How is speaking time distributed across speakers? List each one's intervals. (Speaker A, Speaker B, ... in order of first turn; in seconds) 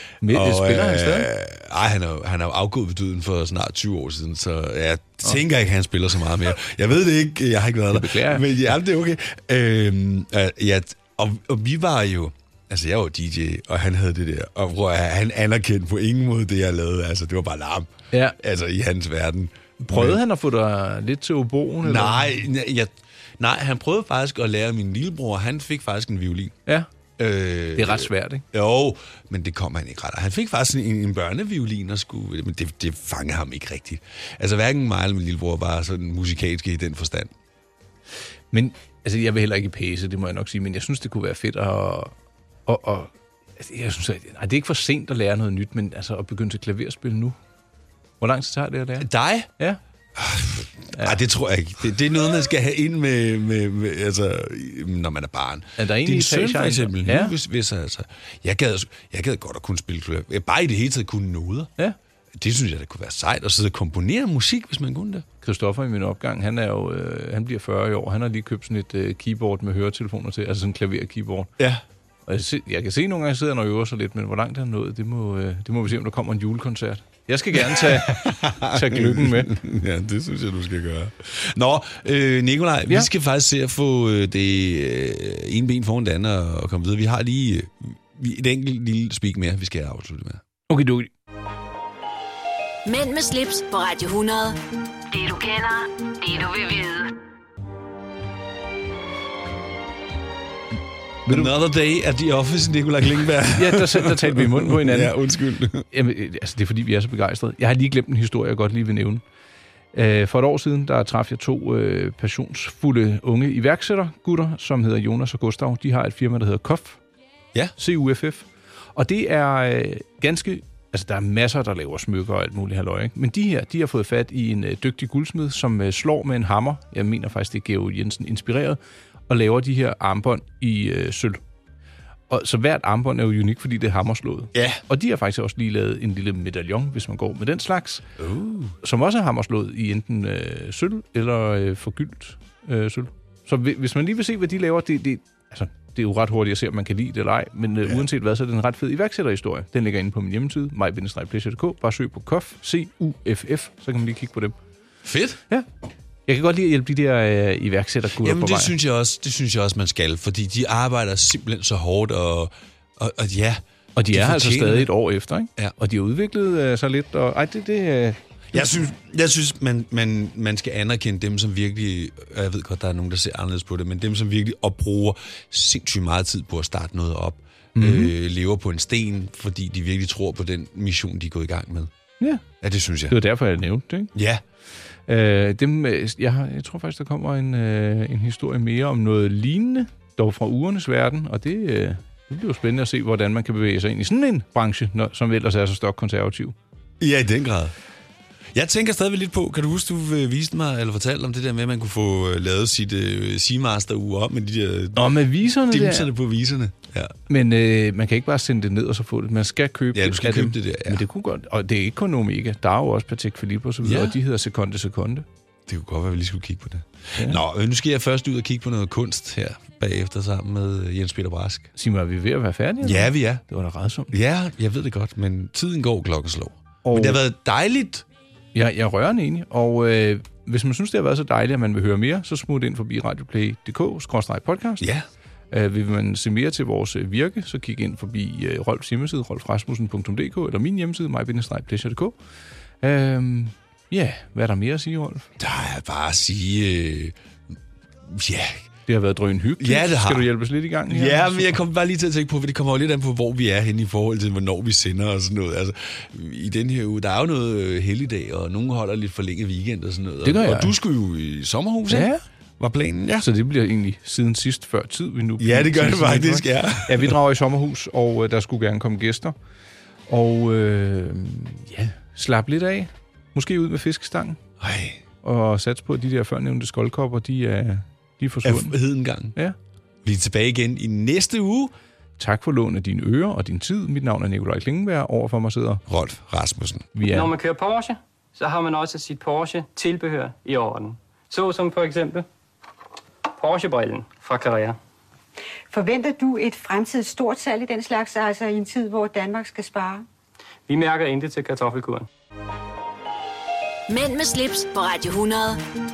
Speaker A: 0.2-1.3, 7.9-8.7, 18.1-18.4, 19.8-22.4, 27.8-28.4, 38.5-42.1, 42.7-47.4, 48.2-49.8, 50.9-51.2, 55.8-57.3, 65.4-71.5, 72.3-79.6, 90.7-91.1, 101.3-101.5, 103.5-105.2, 105.9-109.2, 109.9-117.0, 117.8-131.4, 132.3-138.1, 138.8-154.6, 156.3-158.8, 164.0-168.8, 177.8-178.1, 183.1-184.1, 185.1-196.6, 204.9-206.1, 207.3-215.3, 221.8-224.1, 226.8-227.2, 228.5-234.8, 235.5-242.2, 242.8-245.3, 248.9-251.6, 260.2-260.7, 261.9-262.2, 263.2-269.4, 270.1-274.4, 275.2-278.8, 282.2-285.8, 287.0-287.3
Speaker B: 0.2-20.2, 21.8-26.6, 27.2-37.3, 49.0-49.5, 50.2-61.7, 62.3-65.2, 77.6-90.4, 101.3-105.9, 134.6-134.8, 138.2-138.8, 155.0-155.4, 158.2-164.9, 168.5-181.9, 182.6-183.2, 184.1-184.4, 197.0-197.7, 198.5-207.2, 209.9-211.0, 213.8-214.2, 215.7-221.7, 222.8-223.4, 224.1-228.1, 245.4-247.2, 248.1-248.7, 249.6-250.3, 250.9-263.3, 265.4-267.2, 274.6-275.0, 278.4-279.4, 280.0-281.7, 285.9-286.9
Speaker C: 92.8-94.6, 95.1-97.2, 303.9-305.6
Speaker D: 287.1-292.3, 293.4-294.8, 300.7-302.1
Speaker E: 295.7-300.0